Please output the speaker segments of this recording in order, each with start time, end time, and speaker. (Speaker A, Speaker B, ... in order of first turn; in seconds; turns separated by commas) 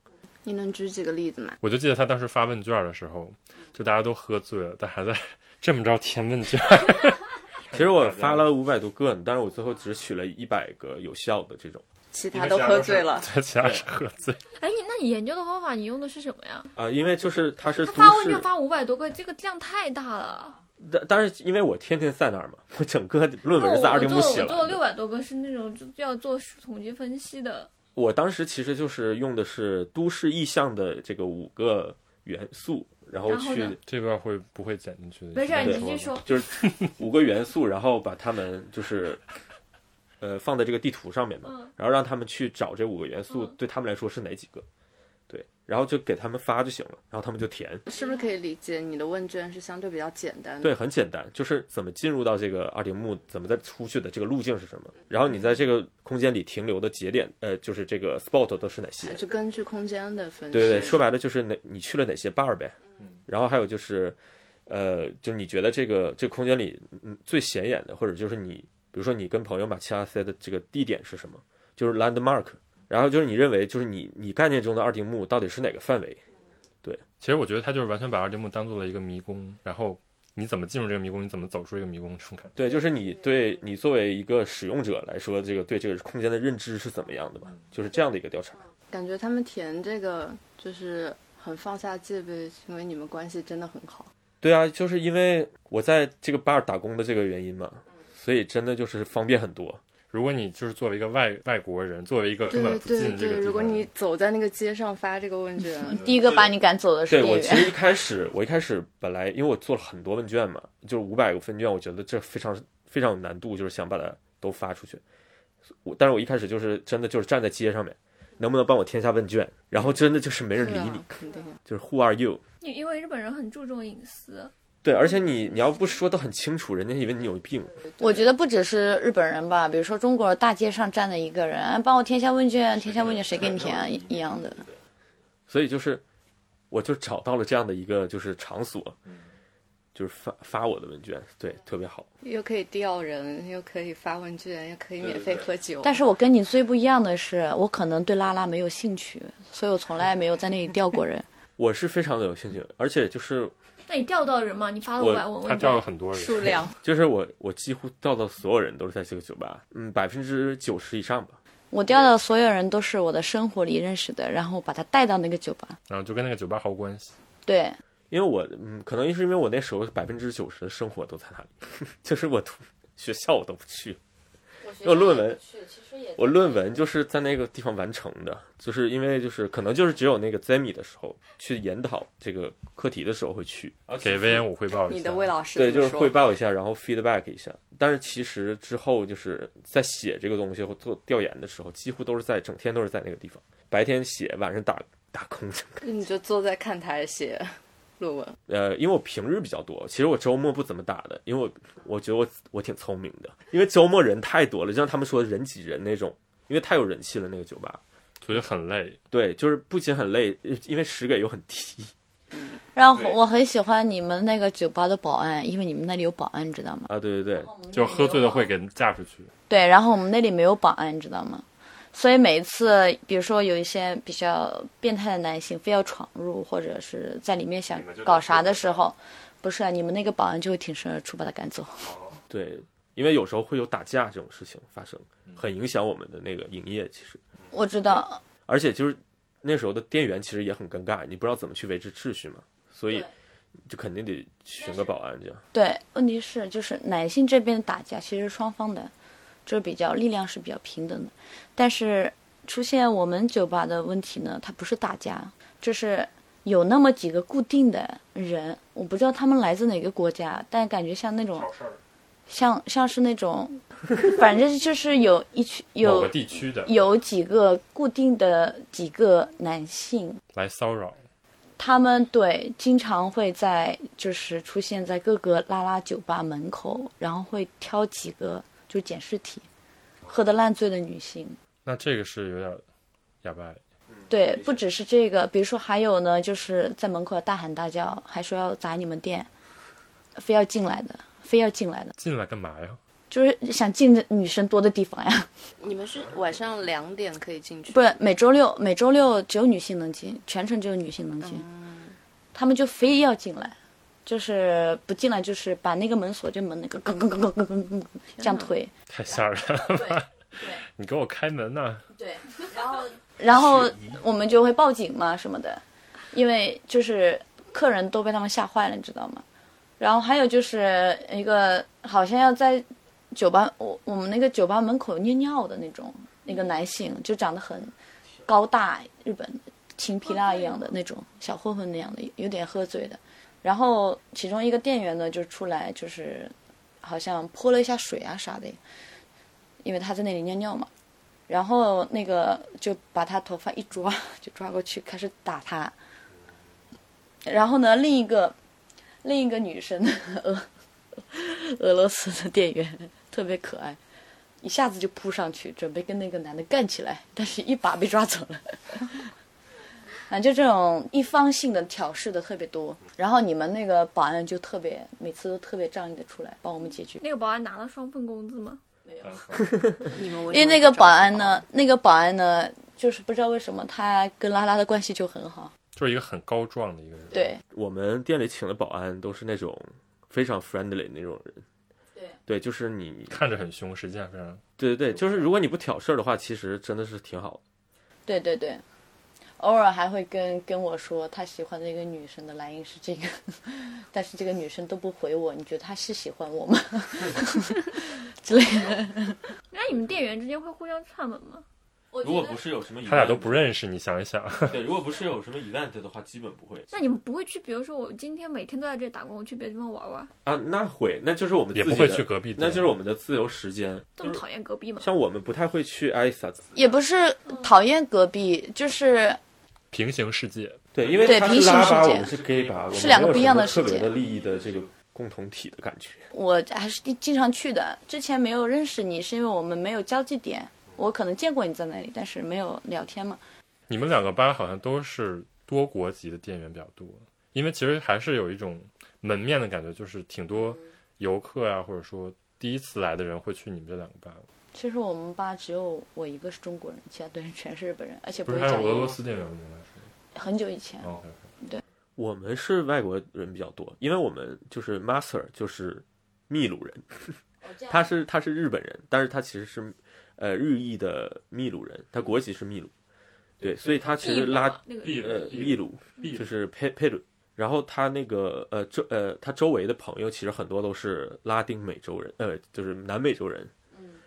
Speaker A: 0.4-1.6, Speaker B: 1.6-8.5, Speaker C: 7.7-11.8, Speaker A: 12.1-13.3, Speaker B: 12.3-14.4, Speaker C: 13.6-13.9, Speaker D: 14.6-16.7, Speaker C: 16.8-18.5, Speaker D: 17.6-20.6, Speaker C: 20.8-24.8, Speaker D: 23.5-27.7, Speaker C: 27.9-33.8, Speaker D: 33.2-33.8, Speaker B: 33.8-36.2, Speaker D: 35.3-36.4, Speaker C: 35.6-39.2, Speaker C: 40.2-44.6, Speaker C: 45.3-47.8, Speaker A: 47.9-50.7, Speaker C: 50.6-59.2, Speaker A: 59.0-61.0, Speaker C: 60.5-62.8, Speaker C: 63.3-76.2, Speaker B: 77.2-82.5, Speaker C: 82.5-88.6, Speaker A: 88.9-94.1, Speaker C: 94.4-99.8, Speaker B: 100.1-103.9, Speaker A: 102.5-106.1, Speaker E: 105.9-107.7, Speaker C: 107.1-115.0, Speaker C: 115.8-122.4, Speaker A: 120.6-121.6, Speaker D: 122.6-124.5, Speaker C: 124.8-127.8, Speaker E: 128.0-134.7, Speaker A: 128.0-128.2, Speaker C: 132.8-134.7, Speaker C: 135.5-136.0, Speaker C: 136.7-139.0, Speaker C: 139.9-142.1, Speaker A: 142.2-146.0, Speaker C: 145.1-145.4, Speaker E: 145.8-151.2, Speaker C: 151.6-153.5, Speaker D: 153.9-155.8, Speaker C: 155.0-155.2, Speaker B: 155.4-156.6, Speaker A: 156.1-156.8, Speaker C: 156.8-161.4, Speaker E: 161.7-165.8, Speaker B: 165.9-167.1, Speaker E: 167.4-167.8, Speaker C: 168.1-174.0, Speaker E: 174.6-176.6, Speaker C: 174.8-175.4, Speaker C: 176.2-184.4, Speaker B: 184.0-185.3, Speaker A: 184.8-186.2, Speaker C: 185.5-195.8, Speaker A: 195.8-198.4, Speaker C: 198.5-207.8, Speaker B: 208.2-209.0, Speaker C: 209.1-211.9, Speaker E: 212.7-218.5, Speaker C: 216.9-217.5, Speaker B: 217.7-219.3, Speaker E: 219.5-231.9, Speaker B: 227.7-228.8, Speaker B: 231.8-232.2, Speaker C: 232.3-237.2, Speaker E: 237.5-238.2, Speaker C: 238.5-243.1, Speaker C: 243.7-245.4, Speaker E: 245.5-248.9, Speaker E: 249.4-261.5, Speaker B: 261.3-261.8, Speaker E: 262.3-270.2, Speaker B: 265.8-266.7, Speaker B: 270.3-271.0, Speaker E: 271.6-279.5, Speaker E: 280.1-281.4, Speaker B: 281.6-282.6, Speaker B: 283.2-283.6, Speaker C: 283.9-284.6, Speaker E: 284.1-289.3, Speaker E: 290.1-291.9, Speaker B: 292.0-292.8, Speaker E: 293.1-295.3, Speaker A: 295.6-297.9, Speaker E: 297.7-301.4, Speaker A: 301.2-302.0, Speaker E: 302.3-309.2, Speaker B: 308.9-311.8, Speaker E: 309.7-310.6, Speaker E: 311.9-319.2, Speaker C: 313.3-313.9, Speaker E: 319.8-327.7, Speaker E: 328.2-338.6, Speaker D: 330.2-330.7, Speaker E: 339.6-340.7, Speaker E: 341.3-345.7, Speaker E: 347.2-348.3, Speaker E: 349.0-353.8, Speaker E: 354.4-359.1, Speaker E: 360.1-367.0, Speaker D: 367.0-368.6, Speaker E: 368.9-369.1, Speaker B: 369.0-369.8, Speaker A: 369.9-371.4, Speaker E: 370.3-375.5, Speaker B: 375.8-377.2, Speaker E: 377.1-377.4, Speaker C: 377.5-381.4, Speaker C: 382.3-383.2, Speaker B: 383.1-384.4, Speaker C: 384.6-387.4, Speaker E: 388.1-388.6, Speaker E: 389.4-399.2, Speaker D: 399.5-401.4, Speaker E: 401.9-402.4, Speaker C: 402.0-403.5, Speaker B: 402.9-404.6, Speaker C: 404.4-406.7, Speaker D: 406.7-410.1, Speaker C: 410.2-414.2, Speaker B: 411.5-412.7, Speaker D: 414.0-414.9, Speaker C: 414.8-416.5, Speaker E: 416.5-419.2, Speaker B: 419.7-420.6, Speaker C: 420.7-426.1, Speaker E: 421.0-422.1, Speaker E: 422.7-423.9, Speaker E: 426.1-433.2, Speaker B: 433.7-444.2, Speaker E: 444.5-449.0, Speaker B: 448.2-449.9, Speaker E: 450.1-450.9, Speaker B: 450.8-451.2, Speaker C: 452.0-457.2, Speaker E: 457.4-457.9, Speaker C: 457.7-462.7, Speaker C: 463.4-473.5, Speaker B: 463.4-464.0, Speaker D: 464.0-466.1, Speaker B: 464.8-466.3